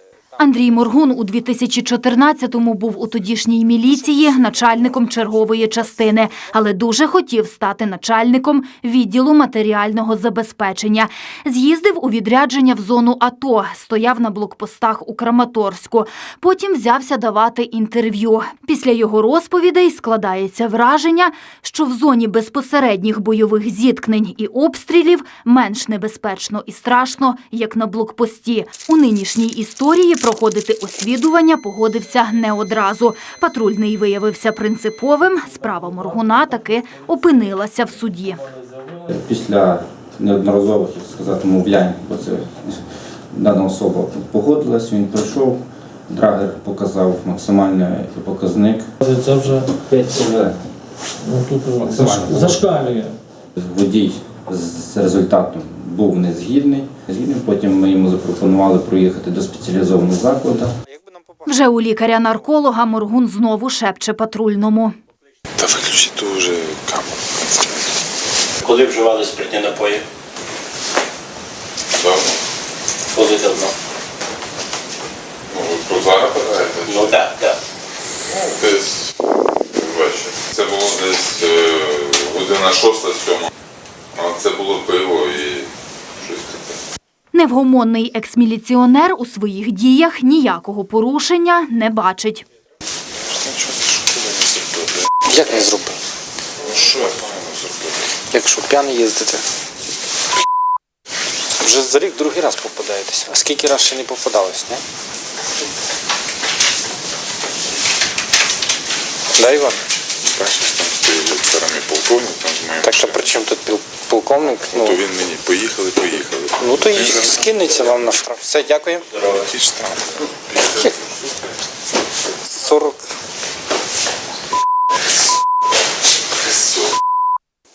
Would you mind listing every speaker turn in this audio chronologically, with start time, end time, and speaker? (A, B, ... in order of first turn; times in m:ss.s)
0:00.4-0:38.4 A
0:39.1-0:42.8 B
0:43.3-0:48.9 B
0:49.0-0:49.7 C
0:49.9-0:50.6 B
0:51.2-0:53.2 C
0:51.8-0:52.6 B
0:53.6-1:00.7 B
1:00.8-1:01.9 D
1:01.4-1:04.9 A
1:05.6-1:07.9 E
1:08.6-1:10.0 F
1:12.0-1:12.4 E
1:13.1-1:13.7 F
1:15.5-1:17.3 E
1:16.9-1:17.6 F
1:18.3-1:19.1 E
1:19.7-1:23.5 E
1:24.1-1:26.8 E
1:27.3-1:32.4 A
1:33.3-1:35.1 E
1:35.3-1:36.0 D
1:36.6-1:38.0 E
1:38.3-1:39.4 D
1:41.6-1:44.8 D
1:49.4-1:49.8 D
1:50.2-1:53.3 E
1:52.8-1:55.0 D
1:54.7-1:57.6 E
1:56.6-1:59.0 D
1:59.2-2:00.9 E
2:02.5-2:03.0 D